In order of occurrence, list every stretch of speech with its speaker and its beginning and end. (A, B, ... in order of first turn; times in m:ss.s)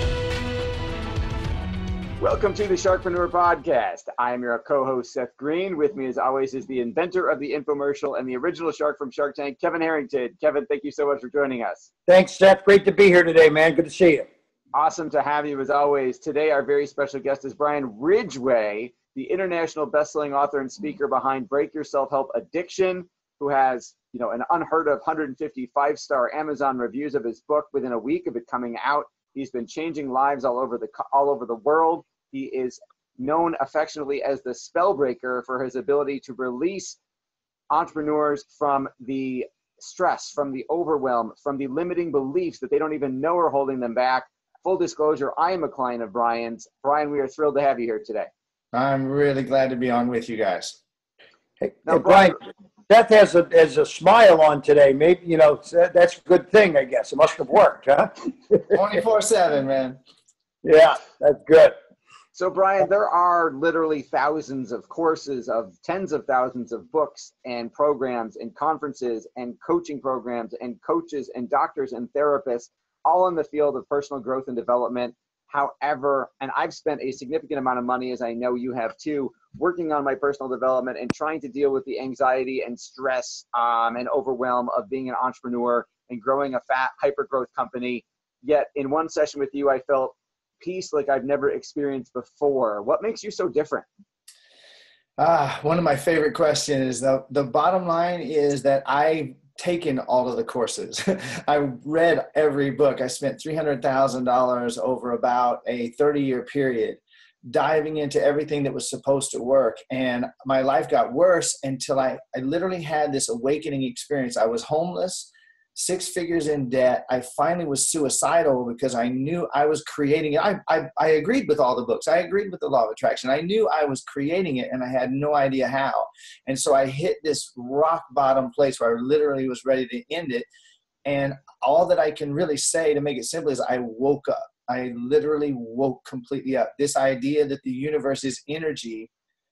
0:02.2-0:11.9 A
0:12.1-0:14.3 B
0:14.7-0:37.0 A
0:37.7-0:48.3 A
0:48.7-0:50.8 C
0:51.6-0:58.8 B
0:51.9-0:52.3 A
0:58.7-1:00.0 C
1:00.6-1:01.7 B
1:02.3-1:33.8 A
1:35.2-2:10.5 C
2:11.0-2:19.1 C